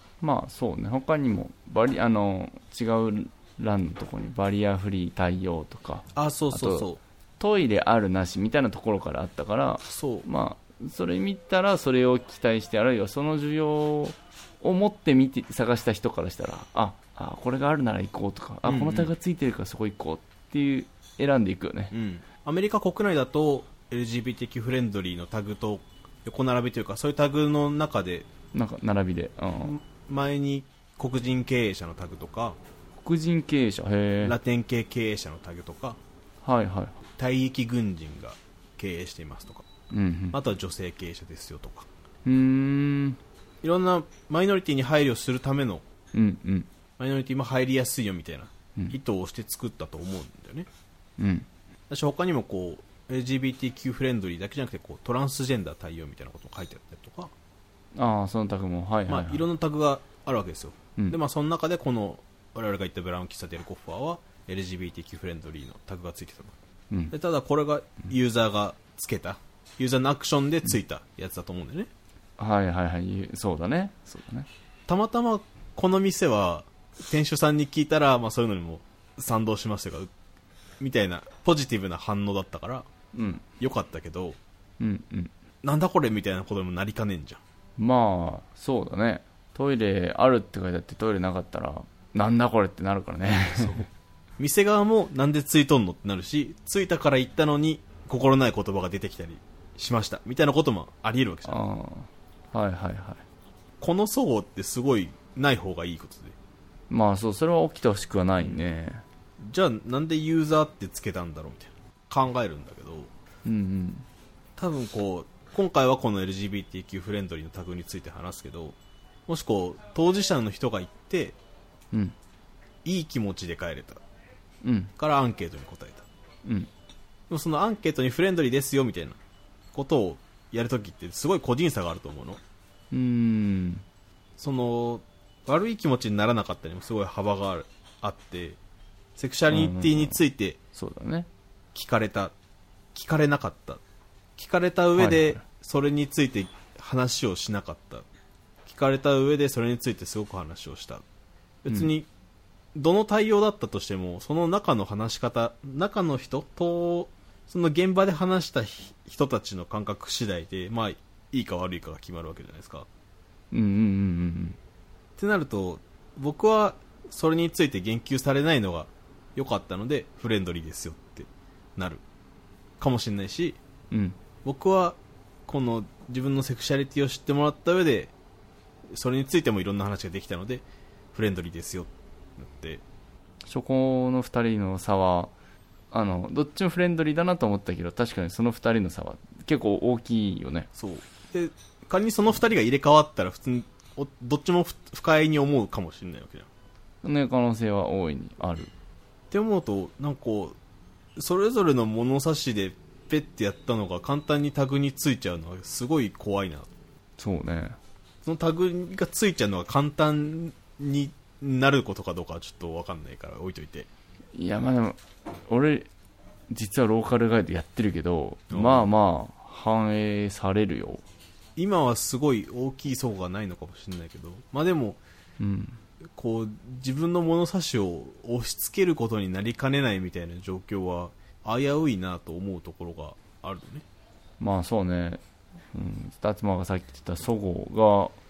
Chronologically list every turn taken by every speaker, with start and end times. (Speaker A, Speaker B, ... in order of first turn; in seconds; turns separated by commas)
Speaker A: 0.2-21.9, Speaker B: 6.1-7.0, Speaker B: 9.9-10.2, Speaker B: 18.6-19.1, Speaker B: 21.9-28.3, Speaker A: 28.5-29.8, Speaker B: 29.6-32.6, Speaker A: 33.0-34.4, Speaker B: 34.2-36.0, Speaker A: 36.4-37.0, Speaker B: 37.1-39.6, Speaker A: 39.9-40.4, Speaker B: 40.3-41.9, Speaker A: 42.2-43.2, Speaker B: 43.6-45.8, Speaker A: 46.1-46.7, Speaker B: 47.0-50.7, Speaker A: 51.2-51.5, Speaker B: 51.9-57.3, Speaker A: 57.9-59.4, Speaker B: 59.1-66.5, Speaker B: 67.1-71.9, Speaker A: 72.4-74.5, Speaker B: 74.9-80.1, Speaker B: 80.8-82.9, Speaker A: 83.1-83.4, Speaker B: 83.6-84.4, Speaker A: 84.8-85.3, Speaker B: 85.6-87.4, Speaker A: 87.8-93.8, Speaker B: 93.5-93.9, Speaker B: 94.4-101.6, Speaker A: 101.5-103.2, Speaker B: 103.8-106.3, Speaker A: 106.9-109.0, Speaker B: 109.4-113.1, Speaker A: 113.4-114.0, Speaker B: 114.6-121.4, Speaker B: 122.8-124.0, Speaker A: 124.6-124.9, Speaker B: 125.0-126.0, Speaker B: 127.3-129.2, Speaker B: 129.7-132.4, Speaker A: 132.9-133.8, Speaker B: 134.4-138.6, Speaker B: 139.2-140.6, Speaker A: 139.5-140.2, Speaker A: 140.7-141.3, Speaker B: 141.7-142.3, Speaker B: 142.9-143.8, Speaker B: 144.3-148.1, Speaker A: 144.9-145.4, Speaker B: 148.7-151.0, Speaker B: 151.6-152.1, Speaker B: 152.7-162.9, Speaker A: 163.5-164.6, Speaker B: 165.2-172.0, Speaker B: 172.8-173.6, Speaker A: 173.9-174.2, Speaker B: 174.4-178.1, Speaker B: 178.9-182.8, Speaker A: 183.5-185.3, Speaker A: 185.9-190.7, Speaker B: 190.7-196.5, Speaker A: 197.0-198.7, Speaker B: 199.3-200.6, Speaker B: 201.2-206.7, Speaker A: 207.2-207.8, Speaker B: 208.2-213.9, Speaker A: 214.3-215.9, Speaker A: 216.5-221.0, Speaker B: 218.5-218.9, Speaker B: 221.6-225.0, Speaker A: 225.4-225.8, Speaker B: 226.1-233.8, Speaker A: 234.4-238.2